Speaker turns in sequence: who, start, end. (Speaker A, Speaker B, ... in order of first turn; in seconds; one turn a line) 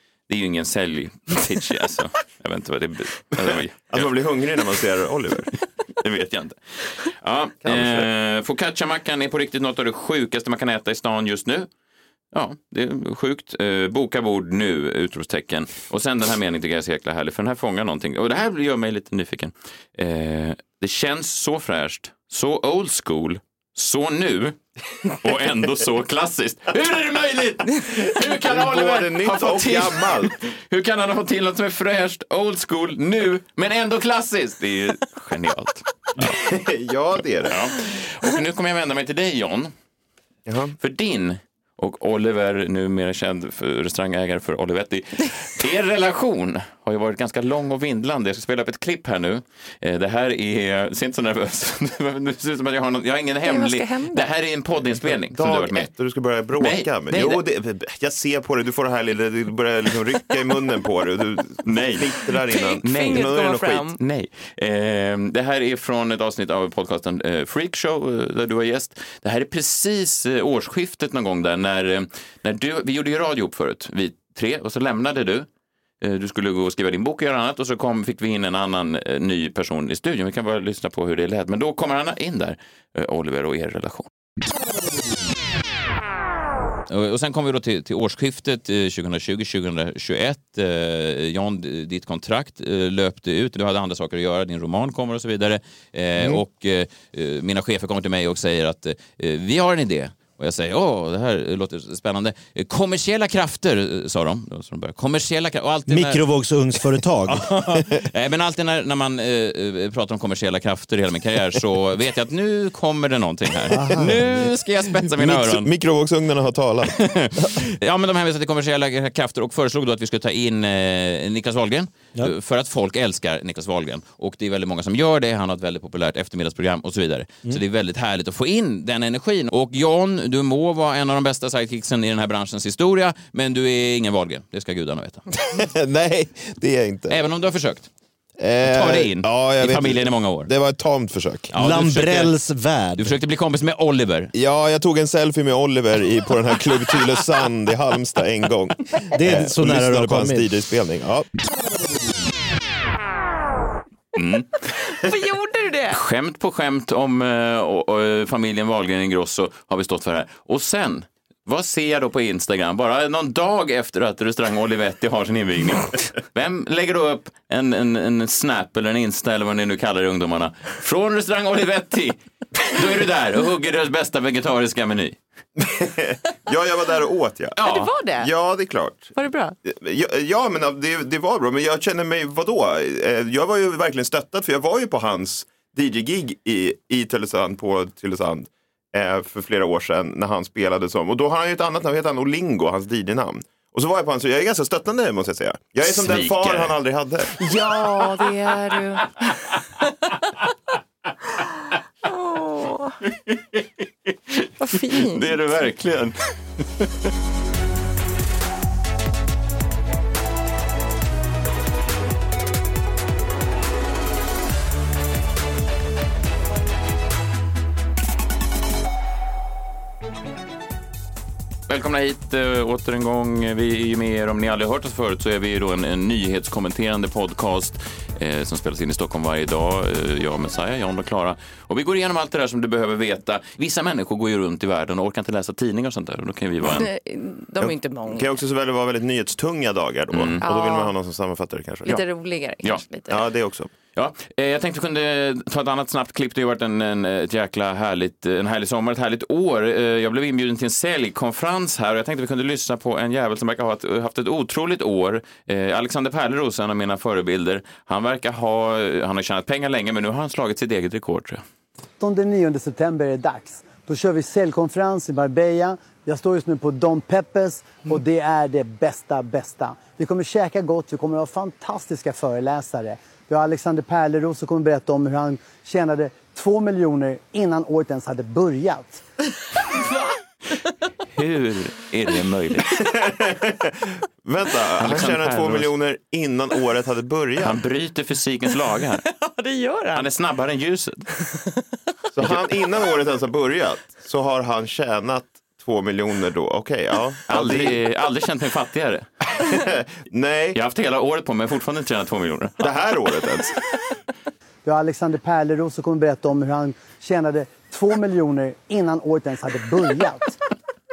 Speaker A: 0.3-4.1
Speaker B: 3.9-5.5
Speaker A: 6.0-11.7
Speaker B: 7.6-8.1
Speaker A: 12.3-24.6
Speaker A: 25.2-36.3
Speaker B: 28.2-30.3
Speaker B: 36.2-37.6
Speaker A: 37.5-39.7
Speaker B: 40.5-40.7
Speaker A: 40.8-55.9
Speaker C: 53.4-54.2
Speaker B: 54.8-63.8
Speaker A: 56.6-57.4
Speaker A: 61.6-62.1
Speaker C: 62.5-64.0
Speaker A: 62.8-75.5
Speaker A: 76.0-84.1
Speaker A: 86.9-106.3
Speaker D: 105.9-107.5
Speaker A: 106.9-115.7
Speaker B: 107.7-108.0
Speaker B: 113.7-114.5
Speaker B: 115.1-117.1
Speaker A: 116.9-135.2
Speaker B: 135.4-137.2
Speaker A: 137.1-137.9
Speaker B: 138.4-141.5
Speaker A: 138.6-140.5
Speaker A: 141.5-142.3
Speaker D: 141.5-143.2
Speaker A: 143.0-144.3
Speaker B: 144.3-151.3
Speaker D: 149.1-150.6
Speaker A: 154.1-154.5
Speaker C: 154.8-156.0
Speaker A: 155.9-175.2
Speaker B: 175.6-177.6
Speaker A: 177.5-177.9
Speaker C: 177.7-178.3
Speaker B: 178.2-197.3
Speaker C: 179.2-179.6
Speaker A: 195.8-196.7
Speaker C: 197.4-199.1
Speaker C: 202.0-203.0
Speaker A: 203.3-203.6
Speaker A: 204.3-206.9
Speaker C: 204.6-205.2
Speaker A: 221.7-236.9
Speaker C: 236.7-238.3
Speaker B: 237.6-242.0
Speaker A: 240.1-240.4
Speaker C: 240.4-240.9
Speaker C: 241.8-243.2
Speaker B: 243.1-243.7
Speaker A: 243.9-261.4
Speaker E: 262.0-279.0
Speaker A: 281.1-282.8
Speaker B: 282.7-287.6
Speaker A: 284.8-285.7
Speaker A: 287.4-289.0
Speaker C: 289.1-290.1
Speaker A: 289.9-291.1
Speaker B: 292.1-297.8
Speaker A: 297.3-299.1
Speaker B: 299.4-300.6
Speaker A: 300.5-302.7
Speaker B: 302.6-303.6
Speaker E: 304.6-310.4